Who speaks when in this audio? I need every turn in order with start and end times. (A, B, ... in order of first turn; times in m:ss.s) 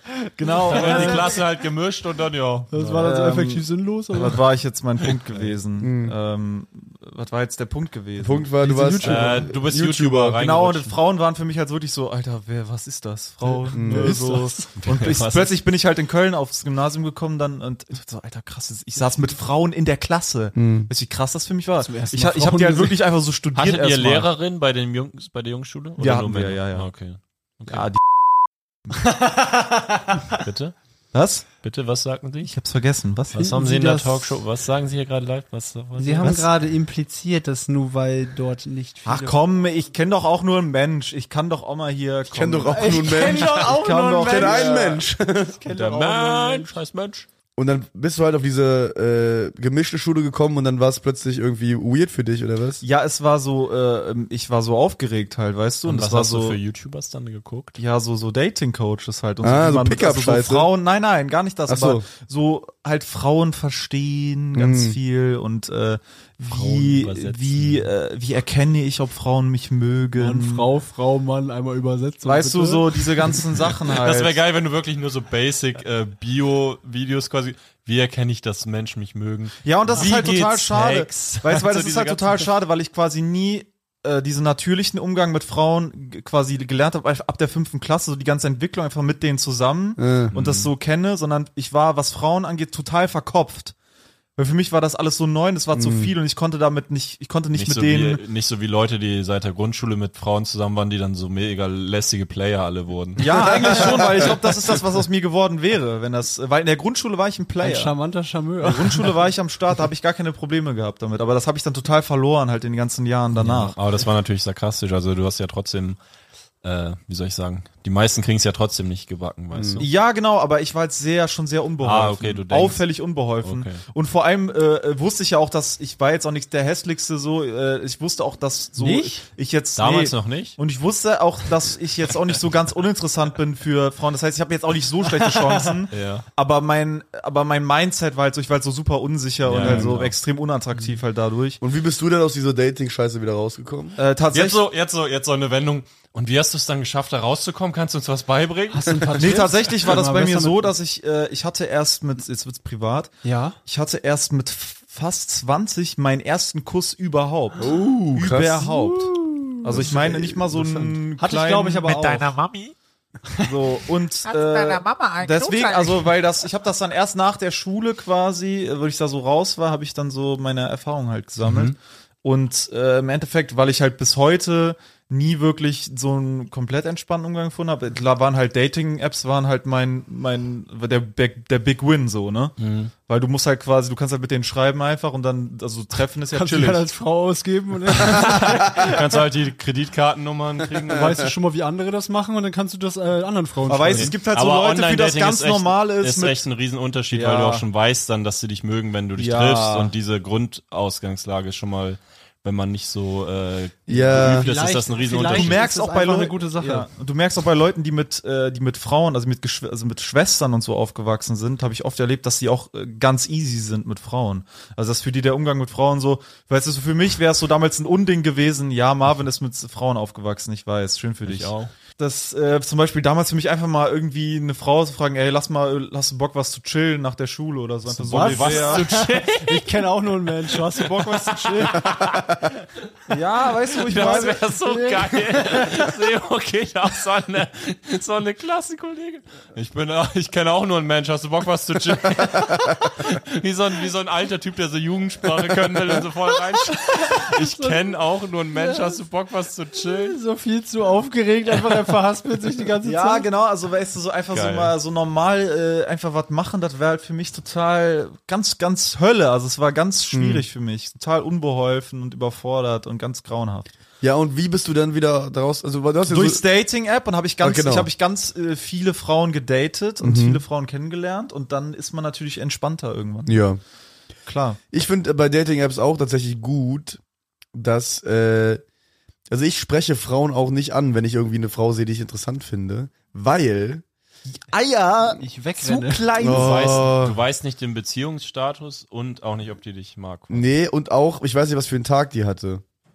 0:00.4-0:01.4 A
0:00.4-0:01.4 B
0:00.7-0:03.1 C
0:02.7-0:04.4 B
0:03.0-0:08.5 A
0:05.0-0:05.5 C
0:05.8-0:06.1 D
0:08.2-0:10.4 D
0:08.6-0:09.5 B
0:09.0-0:11.0 C
0:10.4-0:24.3 A
0:13.4-0:14.7 B
0:13.7-0:14.2 D
0:14.8-0:15.6 C
0:20.5-0:20.9 D
0:21.8-0:23.0 B
0:23.5-0:27.8 C
0:26.0-0:26.9 A
0:27.6-0:28.2 A
0:29.1-0:30.2 B
0:30.4-0:30.7 C
0:31.1-0:31.4 A
0:31.6-0:32.5 C
0:32.4-0:33.5 A
0:33.3-0:36.5 C
0:33.5-0:34.4 B
0:36.0-0:39.4 B
0:39.0-0:45.0 A
0:42.3-0:45.6 D
0:42.7-0:46.7 B
0:45.7-0:47.3 C
0:47.6-0:52.8 D
0:52.8-0:56.6 A
0:55.8-0:57.8 C
0:57.8-1:10.7 A
0:59.4-1:00.7 D
1:01.7-1:02.0 D
1:04.5-1:05.0 D
1:06.4-1:07.9 C
1:10.2-1:13.4 B
1:12.2-1:14.4 A
1:13.9-1:22.5 C
1:19.6-1:33.7 A
1:30.0-1:30.3 D
1:30.3-1:30.7 C
1:34.4-1:38.2 A
1:35.7-1:36.1 D
1:37.5-1:43.8 C
1:43.2-1:47.9 A
1:43.5-1:44.3 D
1:47.6-1:49.2 B
1:48.6-1:53.7 A
1:53.3-1:56.0 C
1:56.6-1:59.9 C
1:59.5-1:59.8 D
1:59.8-2:21.6 A
2:01.8-2:02.8 C
2:03.4-2:03.8 C
2:08.8-2:09.2 B
2:09.8-2:10.6 C
2:15.9-2:16.2 C
2:19.4-2:20.1 C
2:19.6-2:19.9 D
2:21.6-2:24.0 D
2:24.0-2:24.6 A
2:24.3-2:29.5 C
2:28.7-2:30.7 B
2:29.2-2:42.4 A
2:33.2-2:33.6 B
2:37.6-2:41.0 D
2:41.2-2:42.3 B
2:41.8-2:42.7 E
2:43.4-3:02.6 A
2:44.3-2:46.0 E
2:51.4-2:51.7 C
3:02.6-3:02.9 C
3:03.1-3:06.9 A
3:06.3-3:09.0 B
3:07.9-3:11.3 C
3:10.9-3:14.1 B
3:13.6-3:16.4 A
3:13.9-3:25.6 C
3:17.1-3:17.6 A
3:19.2-3:19.9 A
3:23.9-3:24.5 D
3:24.1-3:26.9 B
3:25.3-3:48.9 A
3:41.2-3:41.7 C
3:47.9-3:49.9 C
3:48.1-3:52.0 B
3:50.5-3:52.2 C
3:51.8-3:52.4 D
3:53.1-3:54.4 A
3:53.8-4:10.2 C
3:53.9-3:56.0 B
4:06.6-4:07.9 B
4:08.5-4:09.0 B
4:09.7-4:13.3 B
4:12.8-4:23.7 A
4:14.3-4:14.7 C
4:20.1-4:20.4 D
4:24.0-4:26.4 D
4:26.1-4:33.4 A
4:27.4-4:27.9 D
4:30.0-4:30.4 D
4:33.2-4:33.6 D
4:34.2-4:34.6 A
4:34.7-4:37.0 D
4:37.5-4:38.6 D
4:39.3-4:43.8 D
4:44.3-4:46.9 A
4:45.2-4:46.1 B
4:46.2-4:47.2 D
4:46.2-4:50.4 C
4:50.3-4:52.6 D